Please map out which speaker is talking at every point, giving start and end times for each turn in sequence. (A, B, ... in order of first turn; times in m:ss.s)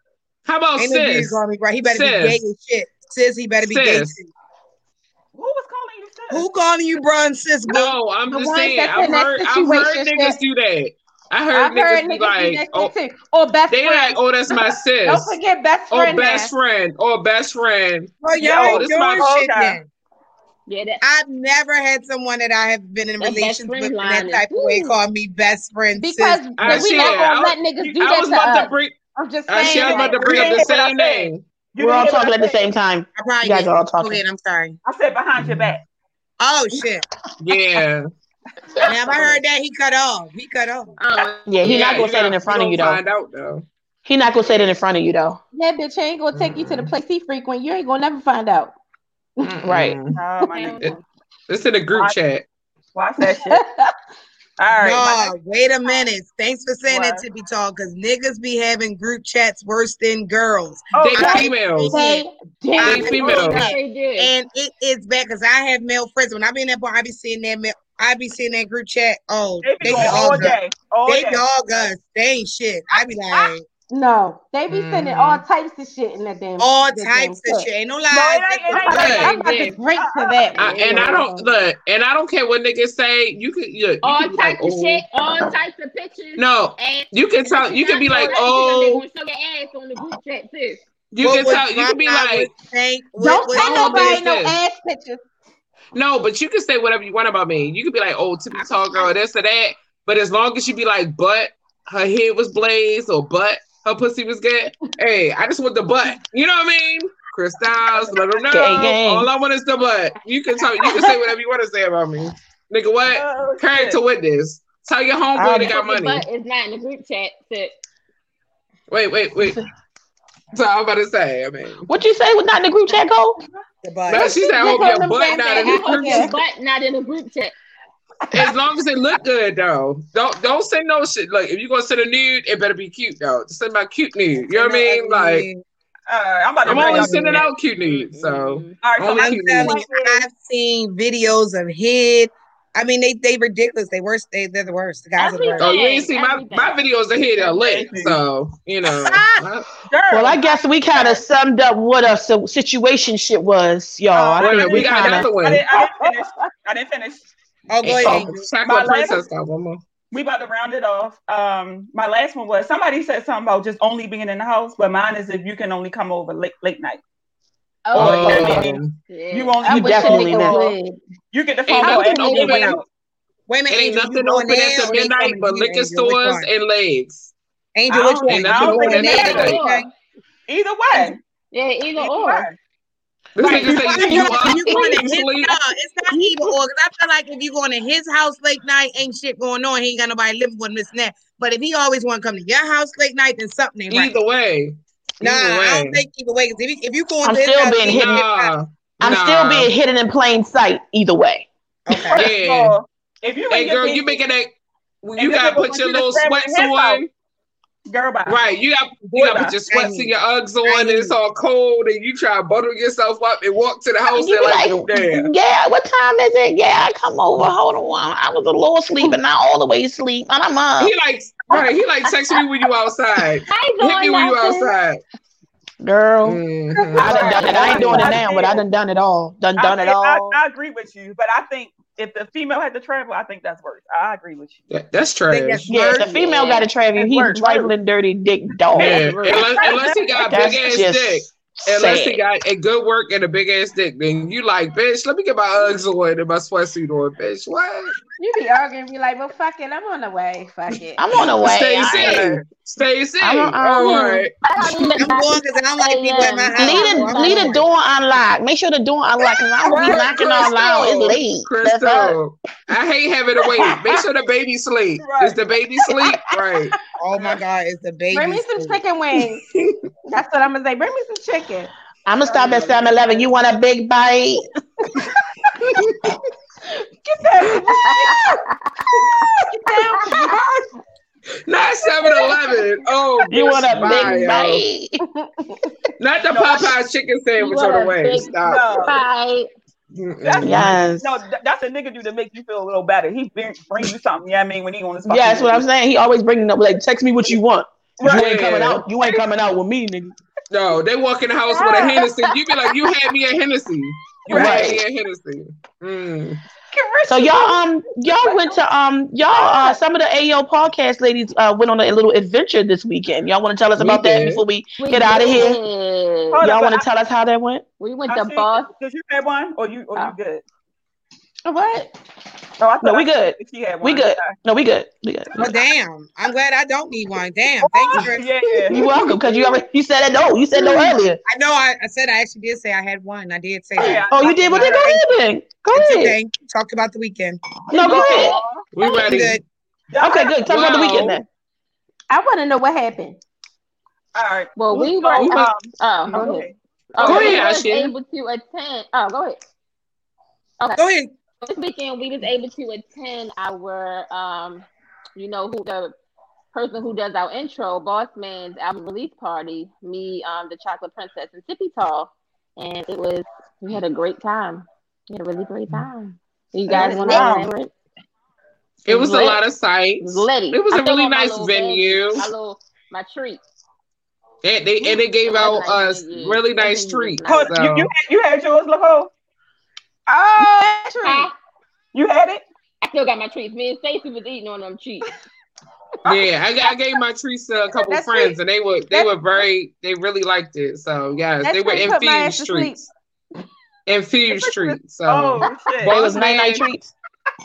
0:00.5-0:02.4 A
0:00.8-0:04.3 B
0:03.6-0:04.2 A
0:05.4-0:06.5 C
0:06.3-0:07.9 B
0:07.7-0:12.9 A
0:08.3-0:10.4 D
0:11.5-0:16.5 D
0:13.7-0:15.4 A
0:15.9-0:19.3 A
0:18.2-0:19.8 B
0:18.4-0:19.8 C
0:20.7-0:21.0 E
0:21.0-0:26.8 B
0:23.2-0:25.0 E
0:26.0-0:30.6 D
0:26.6-0:29.0 A
0:26.7-0:27.3 C
0:27.8-0:28.1 C
0:29.5-0:31.4 A
0:29.6-0:32.6 C
0:31.8-0:34.2 F
0:33.2-0:34.8 B
0:34.8-0:35.8 C
0:36.4-0:37.0 B
0:37.4-0:38.1 A
0:38.9-0:40.9 B
0:39.1-0:39.4 C
0:41.0-0:42.0 E
0:41.5-0:43.0 F
0:41.6-0:43.7 A
0:44.0-0:45.4 F
0:45.5-0:48.8 D
0:46.3-0:46.9 A
0:49.4-0:50.2 A
0:49.6-0:50.0 F
0:50.2-0:50.9 C
0:50.5-0:51.0 E
0:51.5-0:52.5 A
0:51.9-0:52.2 C
0:53.0-0:53.6 C
0:53.4-0:53.9 D
0:54.6-0:55.3 C
0:54.8-1:02.3 B
0:56.9-0:57.2 C
1:00.9-1:01.6 C
1:01.0-1:02.0 A
1:01.2-1:03.4 D
1:02.8-1:13.6 B
1:02.8-1:03.7 A
1:02.9-1:04.3 E
1:09.6-1:11.8 C
1:13.0-1:13.4 C
1:13.9-1:17.7 D
1:14.7-1:15.4 A
1:16.6-1:19.2 B
1:18.1-1:20.9 C
1:18.7-1:21.6 D
1:18.9-1:19.4 A
1:19.2-1:19.8 E
1:20.6-1:21.2 E
1:20.6-1:25.0 A
1:24.0-1:30.8 E
1:26.4-1:29.0 A
1:31.1-1:32.5 A
1:31.2-1:34.2 B
1:33.2-1:35.2 D
1:33.5-1:34.6 A
1:35.9-1:56.2 A
1:48.5-1:49.3 F
1:53.1-1:54.0 C
1:55.4-1:55.8 F
1:55.6-1:57.7 E
1:58.9-1:59.6 A
2:00.5-2:01.9 A
2:01.9-2:03.4 F
2:03.8-2:04.5 B
2:04.1-2:06.4 A
2:04.2-2:06.3 D
2:05.5-2:07.5 E
2:08.3-2:15.5 A
2:14.4-2:15.6 B
2:16.1-2:17.5 C
2:16.6-2:19.8 A
2:16.7-2:17.4 B
2:16.7-2:18.8 E
2:18.8-2:20.3 C
2:19.2-2:25.8 B
2:25.2-2:26.8 E
2:25.6-2:29.7 A
2:27.4-2:28.2 C
2:28.8-2:29.4 B
2:29.9-2:31.2 C
2:30.1-2:35.3 F
2:34.1-2:35.2 B
2:34.4-2:35.7 A
2:34.4-2:37.3 C
2:35.7-2:36.5 D
2:37.7-2:38.5 B
2:37.8-2:39.8 A
2:38.0-2:38.3 F
2:38.6-2:39.3 C
2:40.1-2:47.0 C
2:47.9-2:48.7 D
2:48.0-2:49.0 A
2:48.0-2:48.8 C
2:48.3-2:48.6 F
2:49.1-2:49.9 E
2:49.3-2:50.8 C
2:49.6-2:51.0 D
2:49.6-2:50.7 F
2:51.3-2:52.8 C
2:51.7-2:52.8 A
2:51.8-2:52.6 D
2:51.8-2:52.7 E
2:53.5-2:56.5 B
2:53.7-2:57.3 A
2:57.8-2:59.9 B
2:57.9-2:59.6 C
2:58.3-2:59.6 A
2:59.0-2:59.9 E
3:00.5-3:01.2 C
3:01.5-3:02.5 E
3:02.0-3:02.6 C
3:03.4-3:05.6 A
3:03.4-3:14.2 B
3:03.4-3:04.2 C
3:13.9-3:16.0 A
3:15.2-3:18.5 B
3:17.2-3:18.2 F
3:17.8-3:19.7 A
3:19.0-3:21.5 F
3:21.9-3:22.3 B
3:21.9-3:24.2 C
3:22.1-3:22.8 A
3:23.5-3:27.1 A
3:25.2-3:27.1 C
3:27.9-3:28.5 C
3:28.3-3:35.3 A
3:29.1-3:29.6 C
3:29.7-3:31.2 B
3:34.1-3:40.9 F
3:40.8-3:45.0 A
3:43.5-3:44.7 E
3:45.8-3:46.4 F
3:46.2-3:47.4 A
3:46.8-3:47.6 D
3:47.0-3:48.3 E
3:47.0-3:48.6 C
3:47.0-3:50.4 F
3:49.6-3:54.6 C
3:54.7-3:55.8 A
3:55.3-3:56.2 B
3:55.7-3:59.2 F
3:56.1-3:56.7 E
3:57.0-3:57.7 C
3:58.7-4:00.0 E
3:58.8-4:07.9 A
3:59.4-4:00.5 C
4:00.3-4:02.2 F
4:08.2-4:11.0 D
4:11.0-4:12.4 F
4:11.3-4:14.3 A
4:13.2-4:14.3 F
4:14.5-4:17.6 E
4:15.0-4:17.6 B
4:16.6-4:22.2 F
4:19.8-4:20.1 C
4:20.5-4:21.2 E
4:21.5-4:26.7 A
4:25.0-4:25.4 C
4:25.9-4:26.2 D
4:27.0-4:28.8 B
4:28.1-4:29.4 D
4:29.5-4:29.8 A
4:30.1-4:31.7 D
4:32.1-4:34.4 F
4:32.2-4:33.2 C
4:35.8-4:36.1 A
4:37.0-4:38.4 D
4:39.0-4:40.7 D
4:41.5-4:44.6 A
4:42.0-4:42.6 D
4:43.3-4:44.2 C
4:43.7-4:45.0 F
4:45.0-4:45.8 D
4:46.0-4:48.7 A
4:46.3-4:46.7 C
4:47.4-4:49.5 E
4:48.4-4:49.0 C
4:49.9-4:50.9 A
4:50.2-4:55.6 C
4:50.4-4:51.2 F
4:55.0-5:00.2 F
4:58.0-4:58.4 C
4:58.0-4:58.8 A
5:00.5-5:06.4 A
5:01.5-5:02.4 D
5:04.2-5:04.7 C
5:04.3-5:04.8 F
5:06.7-5:08.6 D
5:07.1-5:15.6 F
5:09.3-5:09.8 D
5:13.8-5:14.4 A
5:14.8-5:16.4 E
5:16.3-5:16.9 C
5:16.4-5:17.6 F
5:17.8-5:18.7 E
5:18.1-5:20.4 C
5:21.4-5:21.9 D
5:22.6-5:24.4 C
5:22.8-5:25.4 F
5:25.4-5:28.3 B
5:27.6-5:28.8 C
5:28.7-5:31.2 F
5:31.3-5:35.0 B
5:33.8-5:35.0 C
5:33.8-5:36.2 F
5:35.7-5:37.4 B
5:37.7-5:38.4 F
5:37.7-5:39.0 D
5:37.8-5:38.7 C
5:37.9-5:38.4 E
5:38.7-5:39.4 A
5:38.8-5:39.4 B
5:39.9-5:41.2 C
5:40.0-5:41.3 F
5:40.5-5:41.0 A
5:42.1-5:43.2 D
5:44.2-5:47.5 C
5:44.6-5:49.4 E
5:45.2-5:45.5 A
5:47.0-5:47.9 A
5:50.8-5:51.1 B
5:51.4-5:55.9 E
5:56.5-6:07.7 E
6:06.7-6:07.5 C
6:06.7-6:07.3 D
6:08.8-6:12.3 A
6:08.9-6:09.4 E
6:10.0-6:13.4 E
6:14.4-6:17.9 A
6:15.2-6:17.6 E
6:17.2-6:19.1 C
6:20.1-6:21.3 D
6:21.0-6:21.3 E
6:21.9-6:22.4 C
6:22.8-6:25.1 E
6:26.0-6:32.9 A
6:26.1-6:26.4 C
6:27.8-6:28.4 D
6:31.4-6:32.8 D
6:33.9-6:36.6 A
6:35.0-6:36.0 C
6:35.8-6:36.9 F